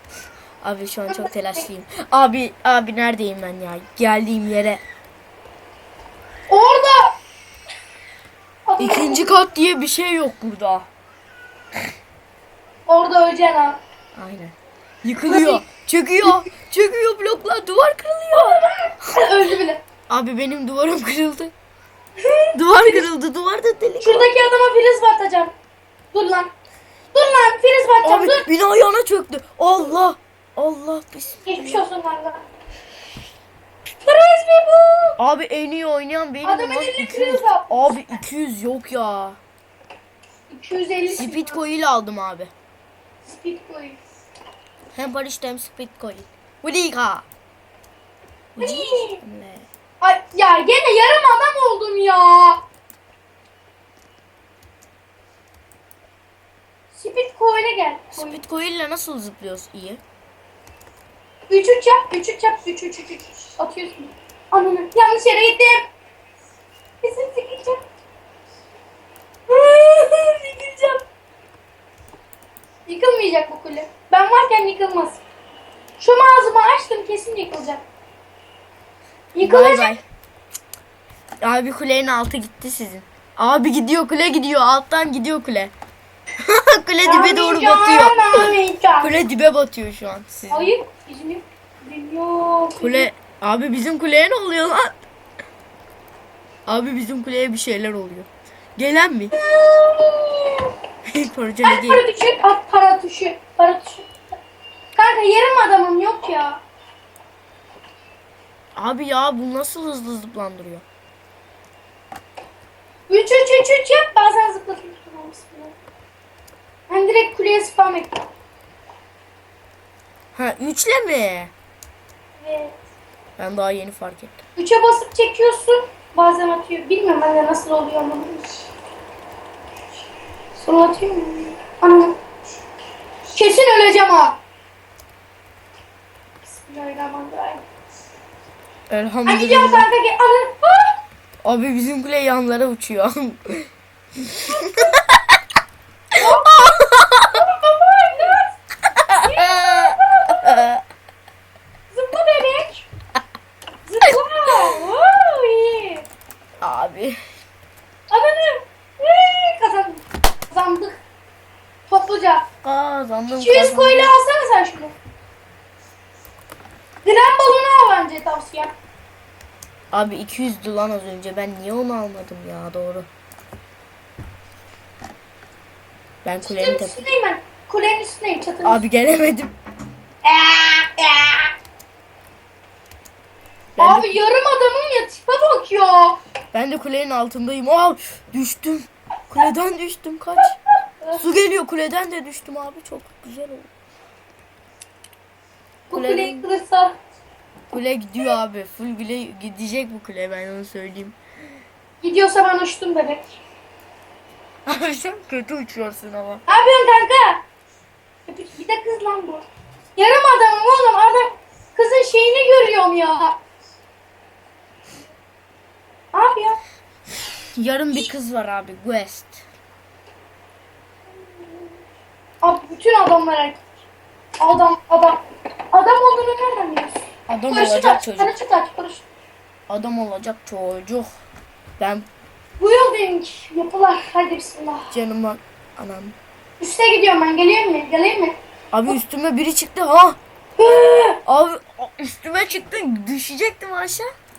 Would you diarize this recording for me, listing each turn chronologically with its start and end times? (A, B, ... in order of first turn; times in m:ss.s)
0:00.6-0:04.8 A
0:01.1-0:01.6 B
0:06.5-0:07.1 B
0:08.7-0:09.3 B
0:08.8-0:10.9 A
0:12.9-0:13.8 B
0:14.2-0:18.6 A
0:15.3-0:15.6 B
0:18.4-0:19.8 B
0:20.1-0:21.5 A
0:22.2-0:23.1 B
0:22.6-0:24.3 A
0:24.0-0:25.5 B
0:26.1-0:26.5 B
0:27.1-0:28.5 B
0:28.0-0:31.8 A
0:31.5-0:32.4 B
0:34.0-0:35.2 B
0:35.2-0:39.4 A
0:36.4-0:37.9 B
0:40.5-0:41.6 B
0:41.1-0:42.5 A
0:43.3-0:44.0 B
0:44.9-0:47.2 A
0:48.6-0:49.7 A
0:48.6-0:49.2 B
0:50.0-0:52.6 B
0:56.9-0:58.4 B
0:58.2-1:00.0 A
1:01.5-1:05.9 B
1:07.0-1:07.8 B
1:09.5-1:11.0 B
1:12.9-1:15.2 B
1:16.0-1:17.8 B
1:19.3-1:20.0 B
1:19.4-1:20.0 A
1:21.4-1:25.7 A
1:26.5-1:30.7 A
1:27.0-1:29.1 B
1:30.5-1:33.1 B
1:32.8-1:35.0 A
1:36.7-1:39.3 A
1:39.4-1:40.7 B
1:41.1-1:42.0 A
1:41.6-1:44.1 B
1:45.0-1:46.6 B
1:48.8-1:50.8 A
1:53.1-1:55.8 B
1:56.9-1:58.2 B
2:00.4-2:01.5 A
2:02.4-2:02.8 B
2:03.4-2:04.4 A
2:04.6-2:08.5 B
2:10.6-2:12.2 B
2:13.3-2:14.4 B
2:16.6-2:17.6 B
2:18.9-2:19.9 A
2:19.3-2:21.0 B
2:21.4-2:25.0 A
2:26.2-2:26.7 B
2:26.6-2:27.4 A
2:27.3-2:28.5 B
2:29.1-2:30.8 A
2:29.2-2:30.6 B
2:31.9-2:32.9 B
2:33.9-2:36.1 B
2:36.6-2:37.2 A
2:38.1-2:41.0 B
2:41.9-2:42.5 B
2:42.6-2:44.1 A
2:43.4-2:45.0 B
2:47.0-2:48.8 B
2:49.9-2:53.1 A
2:56.2-2:57.0 A
2:56.5-2:58.8 B
2:58.6-2:59.5 A
3:00.2-3:01.5 B
3:03.8-3:04.2 A
3:03.8-3:06.2 B
3:06.5-3:10.6 A
3:11.1-3:13.7 A
3:15.9-3:17.0 B
3:15.9-3:16.5 A
3:17.7-3:21.2 A
3:22.0-3:23.3 B
3:24.7-3:26.4 A
3:26.5-3:27.4 B
3:28.3-3:33.4 B
3:36.1-3:36.6 B
3:37.6-3:39.4 A
3:41.4-3:41.7 B
3:42.4-3:43.6 B
3:44.4-3:45.2 B
3:45.7-3:49.1 B
3:47.3-3:48.3 A
3:49.7-3:51.1 A
3:51.8-3:52.1 A
3:52.6-3:54.9 B
3:54.9-3:56.2 A
3:56.6-3:58.4 B
3:58.7-4:00.2 A
4:00.6-4:01.2 B
4:01.2-4:04.1 A